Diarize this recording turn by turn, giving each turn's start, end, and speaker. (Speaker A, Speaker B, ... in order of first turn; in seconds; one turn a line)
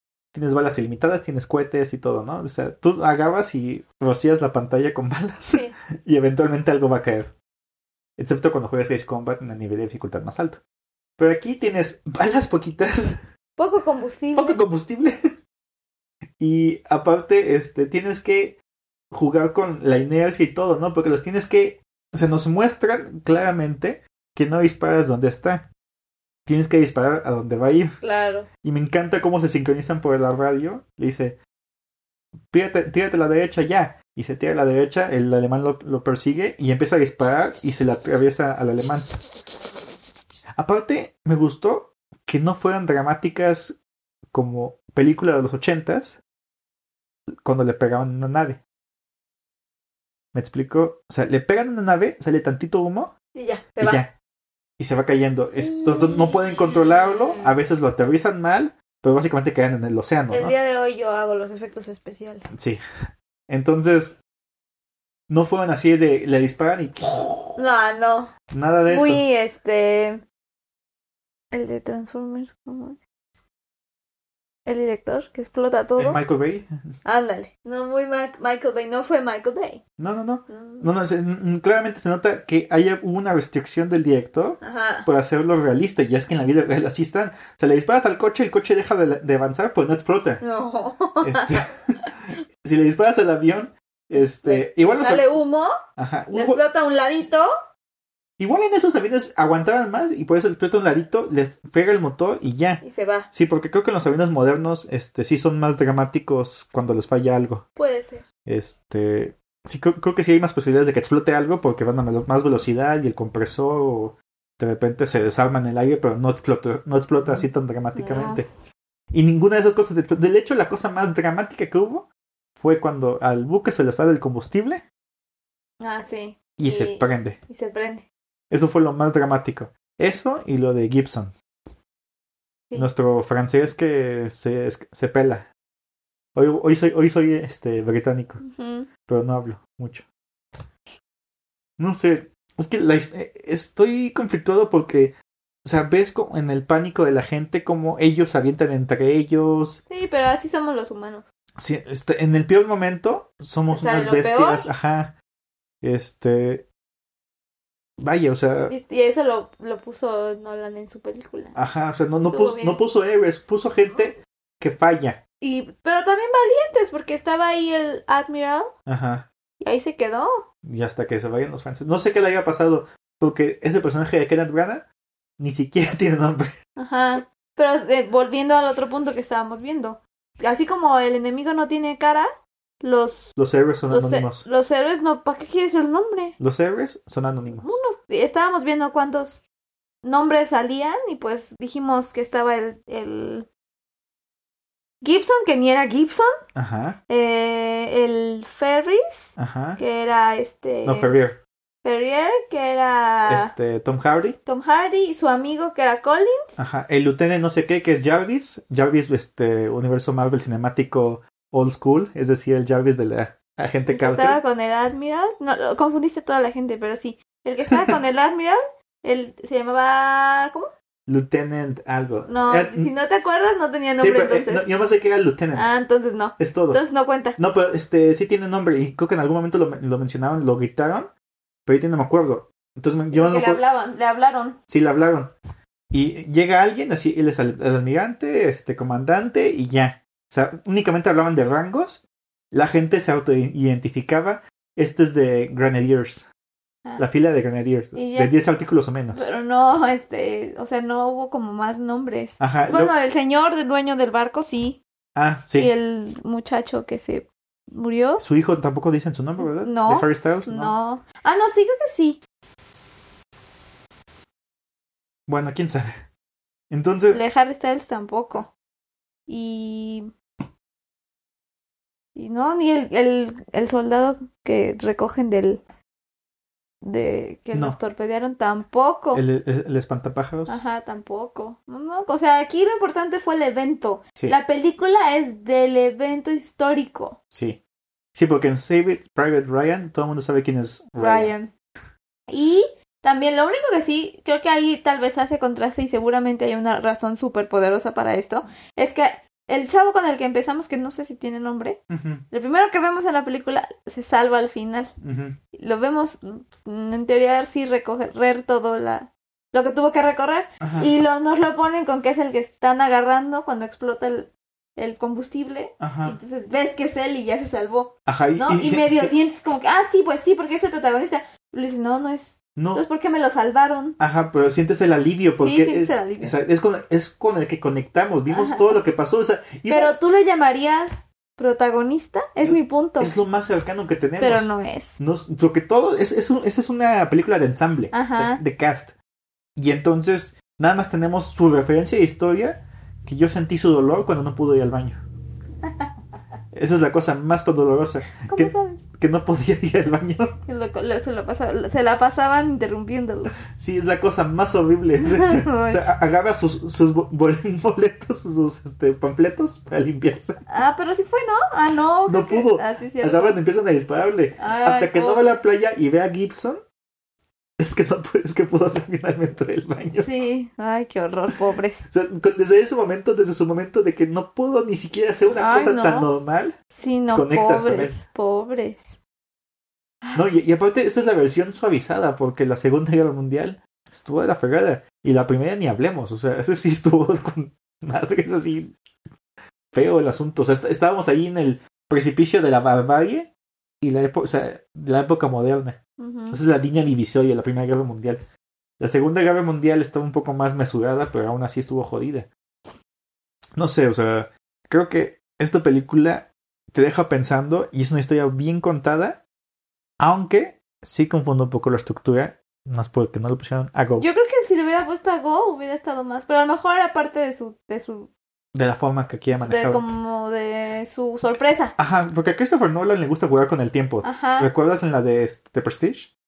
Speaker A: 0.3-7.3
Speaker A: 8.2-10.6
Speaker A: 11.2-13.2
Speaker B: 13.6-14.6
Speaker A: 14.3-15.2
Speaker A: 16.4-18.6
Speaker A: 19.1-25.7
Speaker A: 26.4-27.9
Speaker B: 28.0-28.5
Speaker A: 28.6-31.4
Speaker A: 32.5-39.2
Speaker A: 40.5-43.8
Speaker A: 44.3-46.2
Speaker A: 47.4-48.6
Speaker A: 50.3-53.1
Speaker B: 53.3-54.0
Speaker A: 53.8-54.1
Speaker A: 54.8-60.5
Speaker B: 55.6-57.5
Speaker B: 60.3-62.5
Speaker A: 62.5-62.8
Speaker A: 63.5-64.2
Speaker A: 65.3-67.6
Speaker B: 67.6-68.3
Speaker A: 68.5-69.2
Speaker B: 68.9-70.2
Speaker B: 71.5-73.0
Speaker B: 74.7-76.2
Speaker A: 76.0-76.7
Speaker B: 77.0-79.8
Speaker A: 80.0-90.4
Speaker B: 80.5-80.9
Speaker B: 84.6-85.1
Speaker B: 90.4-92.1
Speaker A: 91.2-95.4
Speaker B: 94.1-95.7
Speaker A: 96.0-96.6
Speaker B: 96.3-97.5
Speaker A: 98.4-107.6
Speaker B: 102.8-103.3
Speaker B: 107.8-108.2
Speaker A: 108.5-118.5
Speaker B: 117.9-118.4
Speaker A: 119.1-124.8
Speaker B: 125.8-128.1
Speaker A: 126.6-127.4
Speaker A: 128.5-131.3
Speaker A: 132.8-135.5
Speaker A: 136.3-138.4
Speaker B: 138.4-138.9
Speaker A: 139.1-140.1
Speaker A: 141.8-149.8
Speaker B: 149.9-151.2
Speaker A: 151.6-155.2
Speaker B: 153.7-154.7
Speaker A: 155.8-156.7
Speaker A: 158.0-158.7
Speaker B: 158.7-161.6
Speaker A: 161.5-165.2
Speaker B: 162.3-162.8
Speaker B: 165.4-168.7
Speaker A: 168.9-169.3
Speaker B: 169.6-170.4
Speaker A: 170.6-174.8
Speaker A: 175.4-176.5
Speaker B: 176.8-182.3
Speaker B: 182.8-183.3
Speaker A: 183.3-184.5
Speaker B: 183.9-186.4
Speaker A: 186.4-187.8
Speaker B: 187.5-189.4
Speaker B: 190.0-193.5
Speaker B: 195.0-196.3
Speaker A: 196.5-197.0
Speaker B: 197.1-201.2
Speaker A: 199.4-199.8
Speaker A: 200.8-201.4
Speaker B: 201.8-203.5
Speaker A: 203.3-204.4
Speaker B: 204.4-206.6
Speaker A: 206.6-214.4
Speaker B: 213.9-220.7
Speaker A: 221.1-222.9
Speaker B: 222.2-224.7
Speaker A: 224.0-225.7
Speaker B: 225.5-227.4
Speaker A: 226.4-226.8
Speaker A: 227.4-231.1
Speaker A: 231.7-233.6
Speaker B: 233.1-234.6
Speaker A: 234.7-235.3
Speaker A: 235.9-246.3
Speaker A: 247.0-249.2
Speaker B: 247.9-248.3
Speaker B: 249.1-254.8
Speaker A: 252.4-252.9
Speaker A: 255.1-255.7
Speaker B: 255.6-258.2
Speaker A: 258.2-260.8
Speaker B: 259.4-262.2
Speaker A: 265.3-266.0
Speaker A: 266.7-267.3
Speaker B: 267.1-268.5
Speaker B: 269.3-270.1
Speaker B: 272.1-275.6
Speaker B: 276.8-279.2
Speaker A: 279.1-280.6
Speaker B: 280.5-287.2
Speaker A: 287.3-287.6
Speaker A: 288.1-291.3
Speaker B: 291.0-291.5
Speaker B: 292.3-301.8
Speaker A: 301.9-302.2
Speaker B: 302.3-304.9
Speaker A: 305.0-305.4
Speaker B: 305.5-324.0
Speaker A: 310.6-310.9
Speaker A: 315.8-316.1
Speaker A: 318.1-319.1
Speaker A: 322.6-322.8
Speaker A: 324.0-329.9
Speaker B: 325.4-326.4
Speaker B: 328.3-328.8
Speaker B: 329.7-333.2
Speaker A: 332.4-338.9
Speaker B: 334.2-335.0
Speaker B: 337.9-338.4
Speaker A: 339.6-345.0
Speaker A: 346.5-350.4
Speaker B: 348.3-348.8
Speaker B: 350.4-353.3
Speaker A: 353.5-360.4
Speaker B: 355.0-355.9
Speaker B: 360.5-363.4
Speaker A: 362.1-366.6
Speaker B: 364.4-365.3
Speaker A: 367.6-370.1
Speaker B: 370.0-371.9
Speaker A: 371.9-376.6
Speaker B: 375.4-376.1
Speaker B: 376.7-379.0
Speaker A: 377.1-378.0
Speaker A: 380.1-388.7
Speaker A: 389.7-395.8
Speaker B: 396.0-396.4
Speaker A: 396.3-398.2
Speaker A: 398.8-402.3
Speaker A: 403.6-409.2
Speaker A: 410.0-414.1
Speaker B: 414.0-418.1
Speaker A: 418.5-419.8
Speaker B: 419.4-421.7
Speaker A: 421.8-426.1
Speaker B: 424.0-424.5